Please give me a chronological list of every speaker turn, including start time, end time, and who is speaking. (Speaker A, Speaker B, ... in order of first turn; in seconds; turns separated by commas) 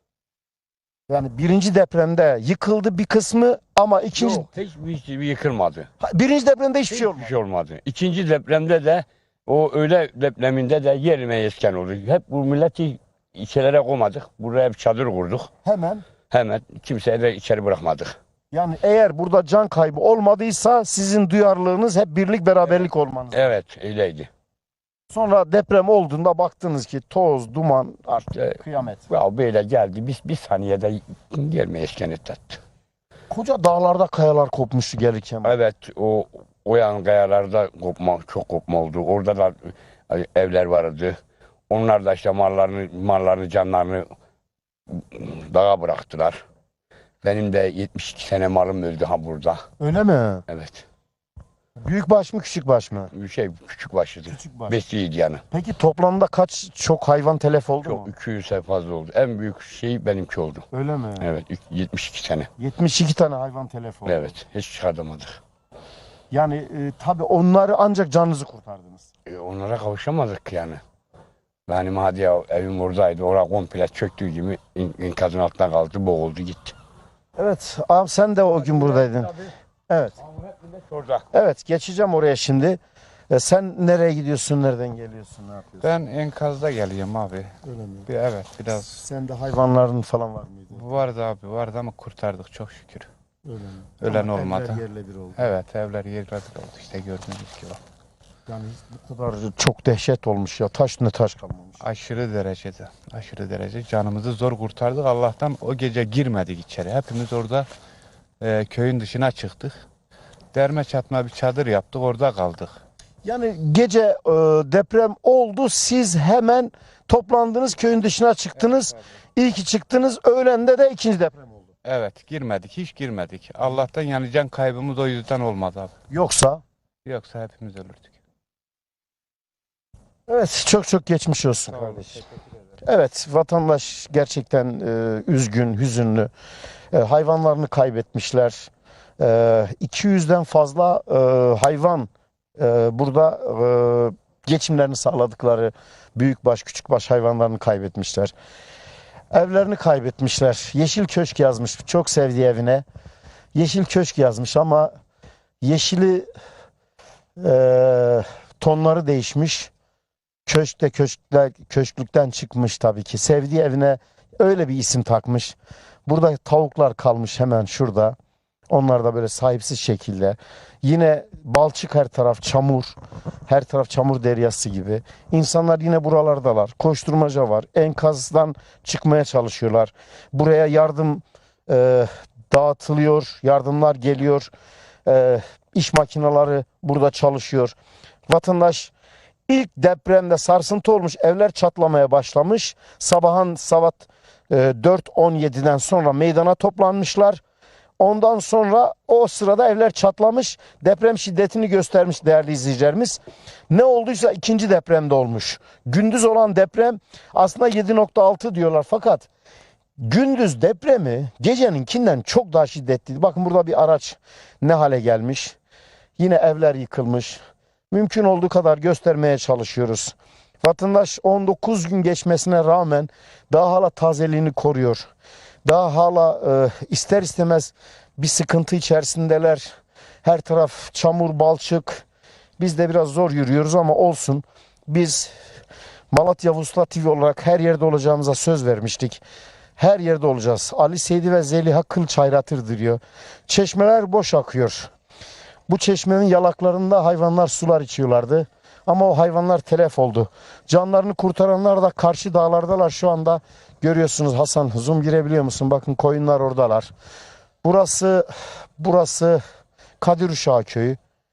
Speaker A: 1.1-4.5, Speaker B: 4.2-5.9, Speaker A: 6.0-7.3, Speaker B: 6.9-15.5, Speaker A: 15.6-16.1, Speaker B: 16.3-18.2, Speaker A: 18.5-23.5, Speaker B: 23.3-24.3, Speaker A: 25.1-29.1, Speaker B: 29.1-32.6, Speaker A: 33.3-35.6, Speaker B: 35.4-41.2, Speaker B: 41.7-44.1, Speaker B: 44.9-46.4, Speaker B: 47.2-49.6, Speaker A: 49.8-50.5, Speaker B: 50.5-50.8, Speaker A: 51.8-53.1, Speaker B: 53.1-55.4, Speaker A: 54.3-54.8, Speaker A: 55.5-58.1, Speaker B: 57.8-60.6, Speaker A: 60.7-61.3, Speaker B: 61.2-62.5, Speaker A: 62.6-64.4, Speaker B: 64.0-65.4, Speaker A: 66.3-69.1, Speaker B: 69.3-70.8, Speaker B: 71.7-76.8, Speaker A: 77.4-80.2, Speaker B: 80.9-81.2, Speaker A: 81.3-82.8, Speaker A: 83.3-85.9, Speaker C: 85.8-87.5, Speaker A: 87.7-88.1, Speaker C: 88.1-88.9, Speaker A: 88.8-90.9, Speaker C: 90.7-93.1, Speaker A: 93.5-95.5, Speaker C: 94.0-94.8, Speaker C: 95.4-97.8, Speaker A: 98.5-101.8, Speaker C: 101.8-107.7, Speaker C: 108.4-109.8, Speaker C: 110.5-112.8, Speaker A: 113.2-121.6, Speaker C: 121.8-125.9, Speaker A: 126.1-126.6, Speaker C: 127.0-128.1, Speaker A: 130.3-132.2, Speaker A: 132.8-136.3, Speaker A: 136.9-148.3, Speaker A: 149.3-152.8, Speaker A: 153.6-154.9, Speaker A: 155.6-156.3, Speaker A: 157.4-159.7, Speaker A: 160.5-168.2, Speaker A: 168.7-172.9, Speaker A: 173.5-184.5, Speaker A: 185.1-187.8, Speaker A: 188.3-188.9, Speaker A: 189.5-197.4, Speaker A: 198.0-203.2, Speaker A: 203.7-209.3, Speaker A: 210.0-215.6, Speaker A: 216.2-217.4, Speaker A: 217.9-225.1, Speaker A: 225.7-229.7, Speaker A: 230.2-232.0, Speaker A: 232.6-235.3, Speaker A: 236.1-239.2, Speaker A: 239.8-244.9, Speaker A: 245.7-256.9, Speaker A: 257.6-259.4, Speaker A: 260.0-261.0